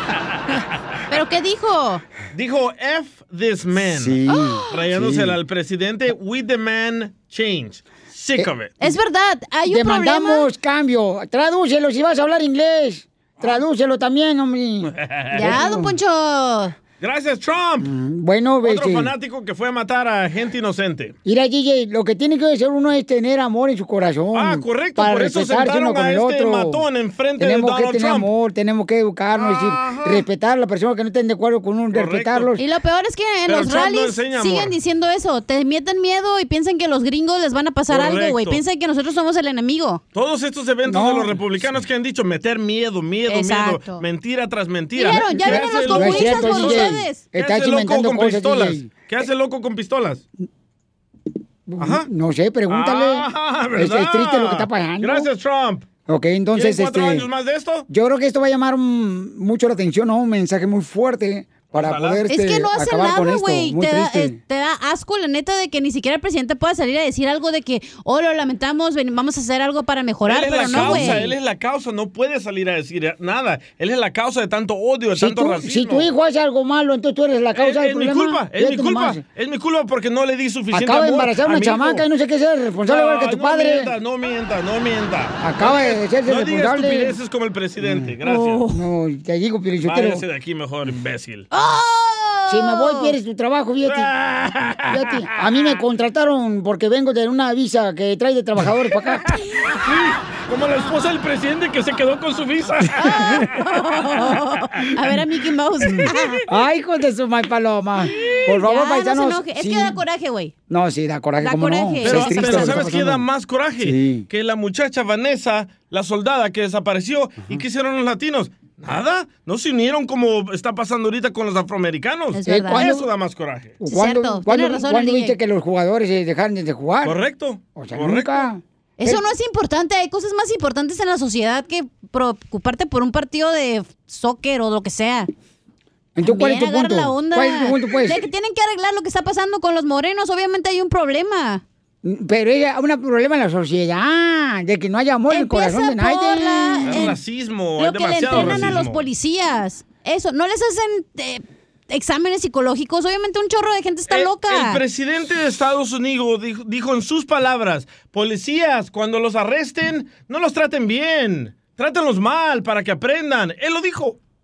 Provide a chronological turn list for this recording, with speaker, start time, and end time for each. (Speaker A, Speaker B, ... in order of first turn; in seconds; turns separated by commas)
Speaker A: 1.1-2.0, Speaker B: 2.3-4.2, Speaker C: 3.8-5.3, Speaker A: 4.3-4.7, Speaker B: 4.7-8.8, Speaker C: 8.4-8.9, Speaker A: 8.8-10.5, Speaker C: 9.6-15.9, Speaker B: 15.0-15.3, Speaker A: 15.3-16.7, Speaker B: 17.0-17.9, Speaker C: 17.8-19.1, Speaker B: 18.6-21.1, Speaker C: 21.2-26.8, Speaker B: 24.3-28.3, Speaker C: 27.4-32.6, Speaker B: 29.4-30.2, Speaker B: 31.9-32.5, Speaker A: 32.6-40.0, Speaker B: 33.5-34.7, Speaker B: 37.9-38.6, Speaker B: 40.1-50.2, Speaker C: 40.9-41.4, Speaker A: 43.3-44.0, Speaker A: 44.9-47.3, Speaker C: 45.0-48.9, Speaker C: 51.7-55.3, Speaker B: 51.8-52.1, Speaker B: 52.7-55.9, Speaker C: 56.1-57.2, Speaker B: 56.5-57.9, Speaker C: 57.9-64.4, Speaker B: 61.7-62.3, Speaker A: 62.3-71.3, Speaker B: 70.2-76.1, Speaker C: 70.6-71.3, Speaker C: 75.1-79.2, Speaker B: 77.5-82.0, Speaker C: 80.7-83.9, Speaker B: 82.9-88.6, Speaker C: 85.4-87.1, Speaker C: 87.8-88.1, Speaker A: 88.2-88.7, Speaker C: 88.7-90.2, Speaker B: 89.8-91.5, Speaker A: 91.5-93.1, Speaker C: 92.5-94.1, Speaker B: 93.8-95.1, Speaker C: 94.9-99.2, Speaker B: 100.5-103.5, Speaker A: 103.0-106.4, Speaker C: 105.9-110.0, Speaker A: 108.5-110.5, Speaker C: 110.7-113.2, Speaker A: 111.4-112.9, Speaker B: 112.0-123.8, Speaker C: 113.8-114.2, Speaker A: 122.3-123.0, Speaker C: 122.4-123.1, Speaker C: 123.8-127.2, Speaker A: 123.8-125.4, Speaker B: 127.0-128.5, Speaker C: 127.7-129.2, Speaker A: 129.0-135.3, Speaker C: 136.2-138.3, Speaker A: 136.2-141.6, Speaker C: 142.0-147.1, Speaker A: 145.3-147.2, Speaker B: 146.8-149.0, Speaker A: 147.8-154.8, Speaker B: 154.1-164.2